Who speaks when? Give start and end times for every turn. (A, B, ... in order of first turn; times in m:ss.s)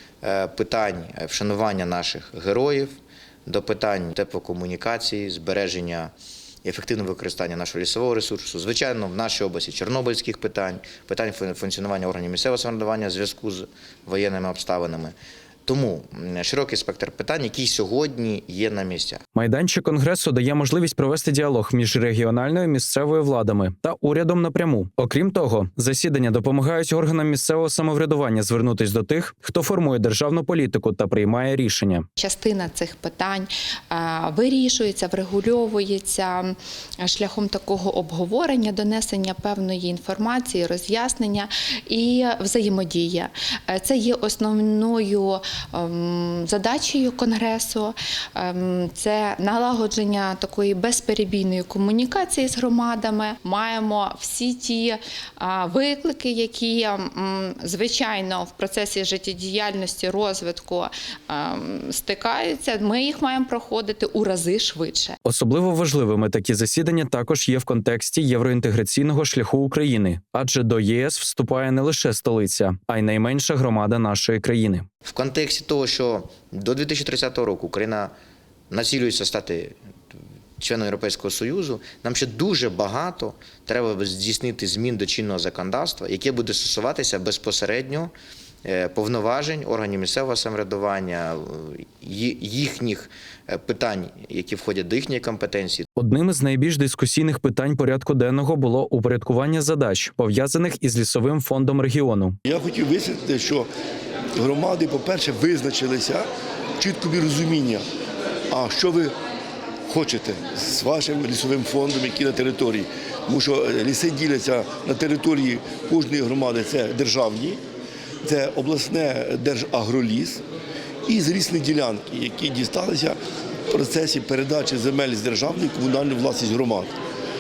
0:00.2-0:02.9 A
0:03.5-0:06.1 A
0:06.6-0:15.2 A
0:15.7-0:19.2 A
0:19.4-0:32.0 B
0:32.2-1:05.2 C
1:05.2-1:14.9 B
1:15.0-1:18.1 A
1:18.7-1:19.8 A
1:20.6-1:28.1 A
1:28.6-1:35.8 A
1:36.0-1:42.4 B
1:42.5-1:43.7 D
1:44.4-1:46.3 D
1:46.8-1:47.8 D
1:48.5-1:49.1 D
1:49.9-1:57.6 D
1:58.2-2:00.4 D
2:01.1-2:03.2 D
2:03.7-2:07.0 D